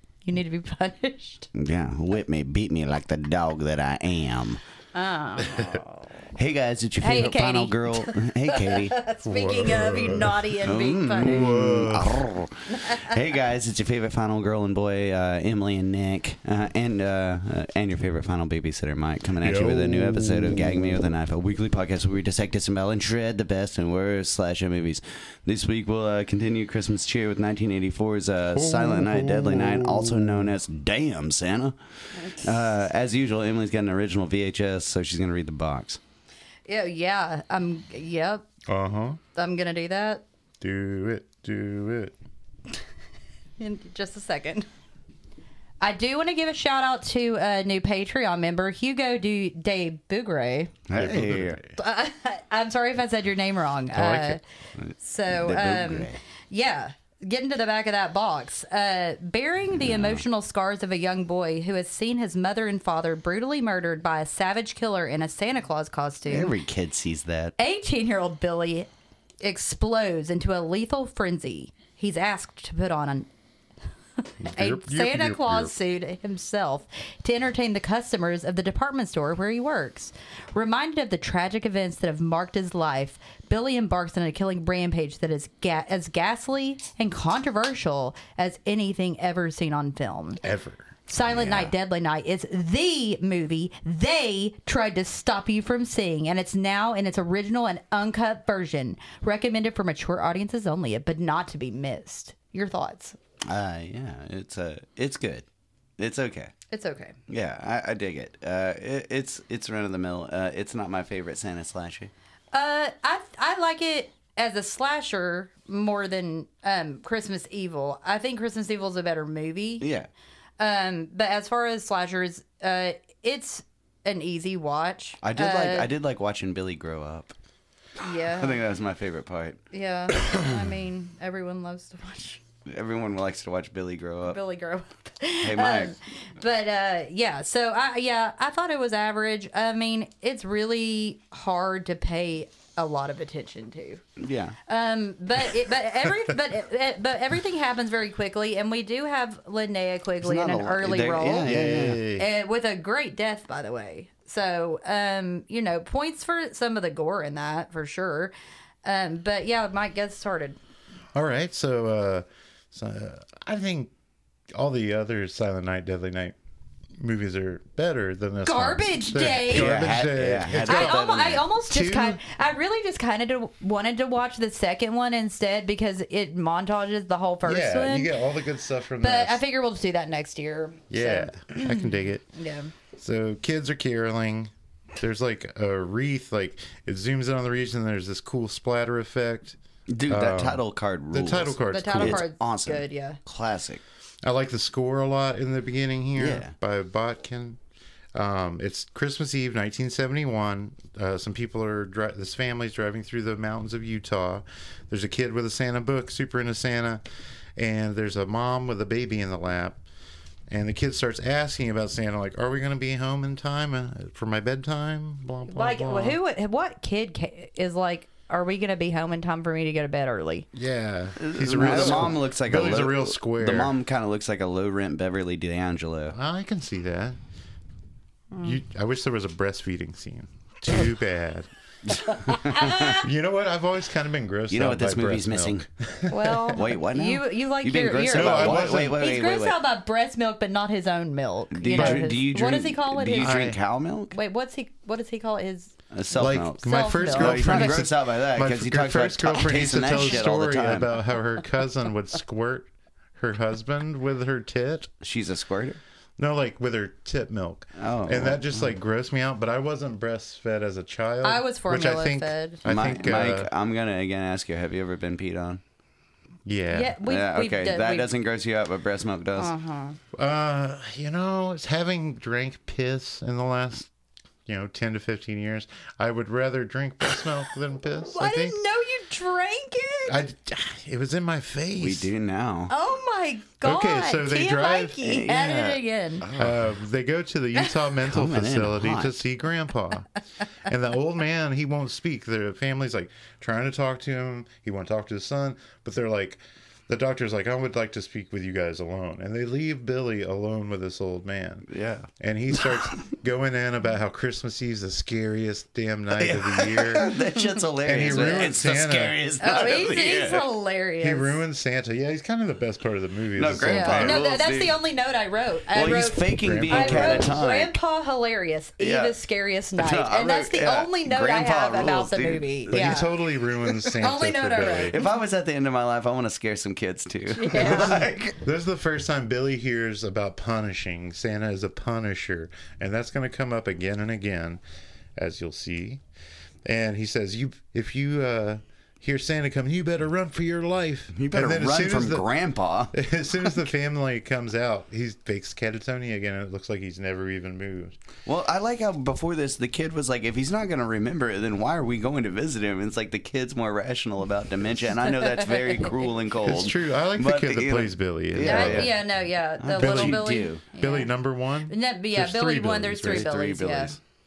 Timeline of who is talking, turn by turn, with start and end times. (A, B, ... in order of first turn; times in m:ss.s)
0:00.2-0:01.5 A
0:01.5-0:04.6 B
0:04.9-0:06.0 A
0:06.3-0:09.0 B
0:07.0-0:11.5 A
0:09.2-0:10.5 C
0:10.6-0:31.8 B
0:11.2-0:12.2 C
0:12.7-0:13.2 A
0:19.4-0:21.1 C
0:28.5-0:30.5 C
0:32.3-0:36.0 B
0:36.7-0:38.4 A
0:38.7-0:39.2 C
0:39.3-0:40.2 A
0:40.6-0:42.1 C
0:43.6-0:44.7 A
0:45.8-0:50.7 A
0:50.9-0:51.6 B
0:51.0-0:51.8 C
0:51.8-0:54.4 A
0:53.9-0:54.4 C
0:54.8-0:56.2 B
0:55.0-1:06.5 A
0:59.8-1:00.2 B
1:06.3-1:07.5 B
1:07.6-1:08.9 A
1:09.4-1:13.3 A
1:14.4-1:15.7 C
1:14.4-1:30.4 A
1:30.4-1:30.9 C
1:31.1-1:43.2 A
1:31.2-1:31.7 B
1:43.5-1:45.4 B
1:46.0-1:46.5 B
1:46.7-1:47.1 A
1:47.3-1:52.1 B
1:52.5-1:59.8 A
1:59.8-2:00.1 B
2:00.6-2:05.9 A
2:05.2-2:07.3 B
2:08.0-2:08.6 A
2:08.3-2:09.6 B
2:09.7-2:12.4 A
2:12.7-2:14.4 B
2:14.3-2:24.0 A
2:15.4-2:15.9 B
2:24.2-2:24.6 B
2:24.7-2:38.3 A
2:30.2-2:32.0 B
2:31.4-2:32.3 C
2:38.8-2:40.6 A
2:41.1-2:43.9 C
2:44.5-2:46.3 C
2:47.0-2:51.0 C
2:48.4-2:49.8 A
2:49.5-2:51.4 B
2:50.6-2:58.2 A
2:51.6-2:52.2 C
2:57.4-2:59.4 C
2:59.0-3:02.7 A
3:00.9-3:02.2 C
3:02.9-3:12.2 C
3:09.9-3:13.8 B
3:11.7-3:13.2 A
3:14.2-3:17.6 C
3:16.2-3:16.5 B
3:18.1-3:27.0 C
3:27.6-3:29.8 C
3:30.5-3:36.2 C
3:35.5-3:40.5 A
3:40.5-3:43.7 C
3:41.2-3:46.2 B
3:46.1-3:47.2 C
3:48.4-3:51.5 C
3:52.0-3:53.1 A
3:52.2-3:53.0 B
3:52.9-3:56.6 C
3:54.5-3:55.6 B
3:56.1-4:03.4 A
3:56.5-3:59.6 B
3:58.1-3:59.0 C
4:01.5-4:04.2 B
4:01.7-4:02.1 C
4:03.2-4:03.6 C
4:04.1-4:05.7 A
4:05.9-4:11.0 B
4:06.2-4:14.9 C
4:06.6-4:07.8 A
4:15.0-4:15.8 B
4:16.2-4:23.5 C
4:17.8-4:18.8 B
4:21.2-4:22.6 A
4:22.6-4:25.6 B
4:26.4-4:27.0 C
4:26.7-4:28.1 A
4:27.0-4:29.5 B
4:29.4-4:30.0 A
4:30.1-4:33.9 C
4:34.4-4:38.6 C
4:38.0-4:40.2 A
4:40.1-4:42.1 C
4:41.8-4:42.7 B
4:42.7-4:46.3 A
4:43.6-4:45.2 C
4:45.0-4:46.6 B
4:46.3-4:50.1 C
4:48.0-4:49.1 B
4:50.6-5:01.7 C
5:01.7-5:02.1 B
5:02.2-5:07.1 C
5:02.6-5:03.1 B
5:06.1-5:10.4 B
5:07.8-5:09.2 C
5:09.4-5:11.4 A
5:11.0-5:14.2 C
5:13.4-5:14.8 B
5:13.6-5:23.1 A
5:15.7-5:17.8 B
5:16.4-5:17.3 C
5:18.8-5:19.2 B
5:19.8-5:23.0 B
5:22.7-5:25.0 C
5:23.6-5:24.0 B
5:24.0-5:25.0 A
5:24.9-5:28.4 B
5:27.3-5:28.0 A
5:27.6-5:34.6 C
5:35.2-5:36.0 C
5:36.6-5:42.2 C
5:41.1-5:42.9 B
5:42.9-5:48.0 C
5:48.2-5:59.0 B
5:55.2-5:56.0 A
5:56.4-5:58.9 C
5:58.4-6:01.1 A
5:59.6-6:00.6 B
5:59.8-6:03.3 C
6:01.7-6:04.0 A
6:03.0-6:04.0 B